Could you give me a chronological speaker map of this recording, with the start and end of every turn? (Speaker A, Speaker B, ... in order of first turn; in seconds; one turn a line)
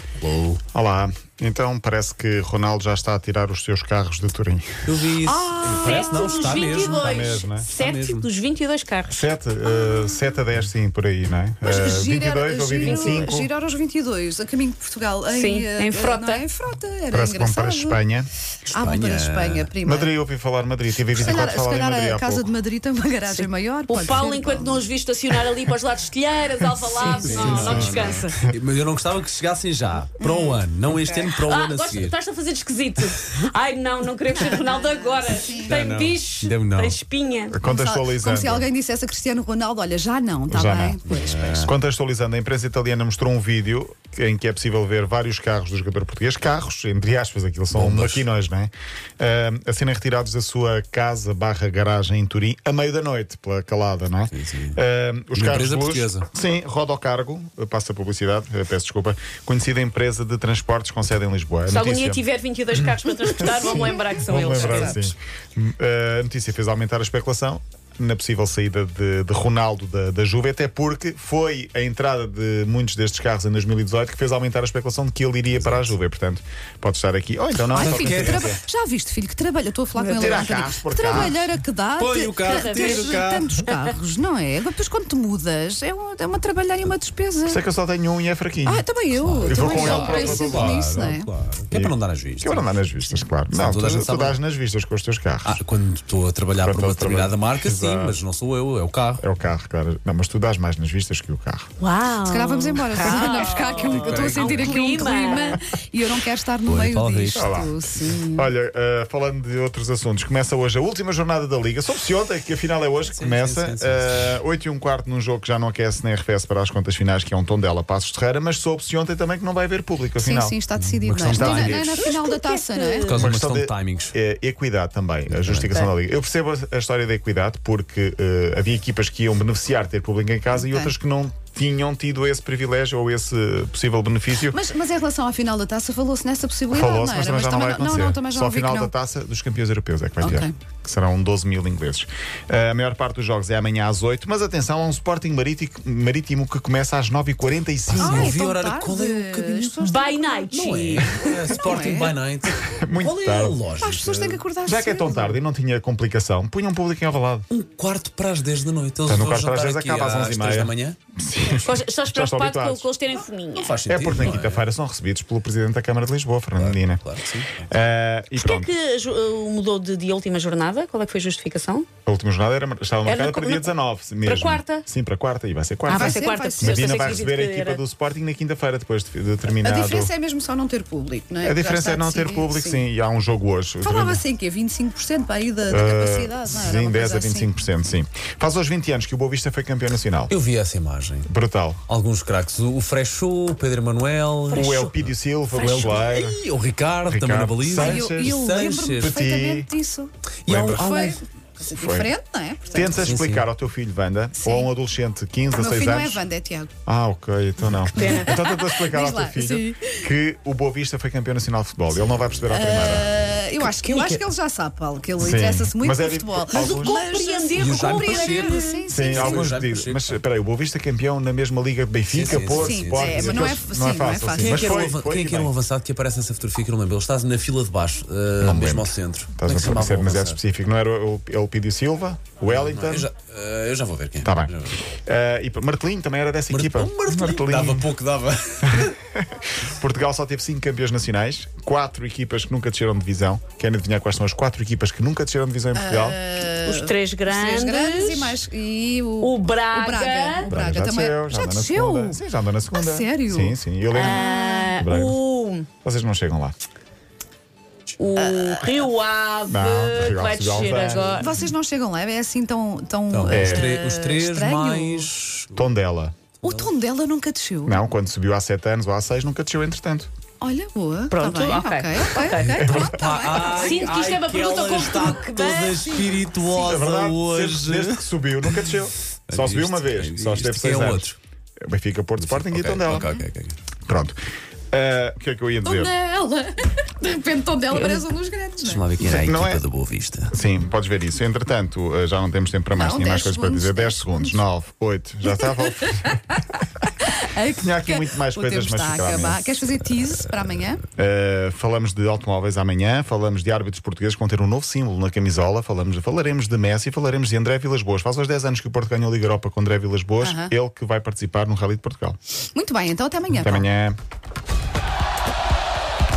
Speaker A: 0.2-0.6
Speaker B: 0.7-5.1
Speaker A: 4.9-8.3
Speaker C: 5.5-9.3
Speaker D: 5.6-6.5
Speaker B: 6.8-7.7
Speaker B: 9.1-13.5
Speaker D: 11.6-18.0
Speaker C: 12.8-13.3
Speaker C: 15.3-16.4
Speaker B: 17.1-18.3
Speaker A: 18.7-19.7
Speaker D: 18.7-20.1
Speaker B: 19.8-22.5
Speaker D: 21.1-24.9
Speaker C: 23.4-28.4
Speaker D: 27.0-27.9
Speaker A: 27.0-32.1
Speaker B: 27.4-28.3
Speaker D: 30.2-30.6
Speaker C: 30.9-37.6
Speaker D: 34.3-35.8
Speaker A: 35.6-37.0
Speaker B: 37.5-38.7
Speaker D: 37.6-41.6
Speaker B: 40.5-62.2
Speaker A: 41.1-41.7
Speaker A: 47.7-48.2
Speaker A: 54.3-54.8
Speaker A: 55.3-56.3
Speaker C: 61.7-65.0
Speaker B: 63.4-78.6
Speaker A: 64.5-65.0
Speaker A: 75.5-76.0
Speaker D: 77.7-87.6
Speaker A: 77.7-78.5
Speaker C: 80.0-80.3
Speaker B: 80.2-81.5
Speaker A: 82.0-83.5
Speaker C: 82.5-83.2
Speaker B: 87.5-88.9
Speaker D: 88.7-91.3
Speaker A: 89.2-92.7
Speaker B: 89.4-90.8
Speaker B: 91.7-95.6
Speaker A: 93.5-94.4
Speaker A: 95.5-99.3
Speaker B: 96.6-98.2
Speaker B: 99.2-101.7
Speaker C: 101.8-105.6
Speaker D: 102.2-108.5
Speaker A: 103.3-104.8
Speaker A: 106.7-107.7
Speaker B: 107.3-107.7
Speaker B: 108.3-120.6
Speaker A: 113.0-114.4
Speaker D: 120.2-123.1
Speaker A: 120.8-122.2
Speaker B: 121.3-122.0
Speaker C: 122.3-123.2
Speaker A: 123.0-124.2
Speaker B: 123.1-134.6
Speaker A: 125.3-125.8
Speaker D: 130.5-130.9
Speaker D: 134.5-138.9
Speaker B: 136.7-148.4
Speaker D: 140.2-140.5
Speaker A: 147.9-149.8
Speaker D: 148.0-152.2
Speaker C: 149.8-151.2
Speaker A: 150.5-154.4
Speaker B: 152.6-153.6
Speaker D: 153.8-155.4
Speaker B: 154.6-157.5
Speaker A: 157.5-161.0
Speaker B: 159.1-162.9
Speaker C: 161.6-163.9
Speaker A: 163.5-164.6
Speaker B: 163.9-167.0
Speaker A: 166.6-167.7
Speaker B: 167.7-168.7
Speaker C: 168.4-171.9
Speaker B: 172.1-180.1
Speaker C: 173.0-173.7
Speaker C: 174.2-174.9
Speaker C: 175.9-177.8
Speaker D: 175.9-177.2
Speaker D: 179.5-182.9
Speaker B: 181.4-184.2
Speaker D: 183.8-187.5
Speaker B: 185.7-190.3
Speaker A: 190.3-191.3
Speaker B: 191.3-191.8
Speaker A: 191.9-199.2
Speaker C: 194.5-194.9
Speaker B: 194.5-196.4
Speaker C: 195.5-195.9
Speaker B: 197.1-199.7
Speaker D: 197.7-203.1
Speaker B: 200.5-201.0
Speaker A: 200.5-201.2
Speaker B: 201.7-202.1
Speaker B: 202.7-206.2
Speaker A: 202.9-203.5
Speaker D: 204.4-204.7
Speaker D: 205.5-206.7
Speaker B: 206.9-213.2
Speaker C: 207.8-208.3
Speaker D: 208.0-210.1
Speaker A: 211.9-212.6
Speaker D: 212.5-219.5
Speaker A: 213.3-214.3
Speaker B: 215.2-217.1
Speaker C: 216.5-218.9
Speaker A: 217.6-220.2
Speaker B: 218.9-225.5
Speaker A: 222.1-223.6
Speaker D: 222.3-224.8
Speaker A: 224.4-230.4
Speaker B: 228.4-233.1
Speaker A: 232.5-234.8
Speaker B: 234.2-237.9
Speaker A: 236.5-239.0
Speaker B: 238.8-246.2
Speaker D: 245.7-252.2
Speaker C: 246.6-248.4
Speaker C: 249.2-250.5
Speaker B: 250.5-254.2
Speaker D: 252.7-254.7
Speaker C: 253.9-255.7
Speaker B: 254.7-255.2
Speaker B: 255.8-256.6
Speaker C: 258.0-261.3
Speaker D: 258.2-258.8
Speaker B: 259.5-261.2
Speaker D: 261.1-265.1
Speaker A: 263.1-265.6
Speaker B: 263.3-263.7
Speaker B: 265.5-266.1
Speaker D: 266.4-267.8
Speaker A: 266.4-266.7
Speaker B: 267.7-270.1
Speaker D: 270.4-274.0
Speaker C: 271.1-272.8
Speaker B: 272.5-273.0
Speaker A: 272.9-278.7
Speaker C: 273.5-276.2
Speaker B: 276.6-281.1
Speaker A: 279.3-281.2
Speaker B: 281.6-283.1
Speaker A: 282.2-283.6
Speaker B: 283.9-284.2
Speaker B: 284.7-285.9
Speaker D: 285.6-288.9
Speaker A: 288.6-290.3
Speaker B: 289.0-289.6
Speaker B: 290.3-296.2
Speaker D: 292.7-294.4
Speaker D: 295.4-296.4
Speaker D: 297.0-300.8
Speaker B: 297.6-299.6
Speaker B: 301.0-312.2
Speaker D: 310.2-310.5
Speaker D: 312.5-313.7
Speaker B: 313.3-314.0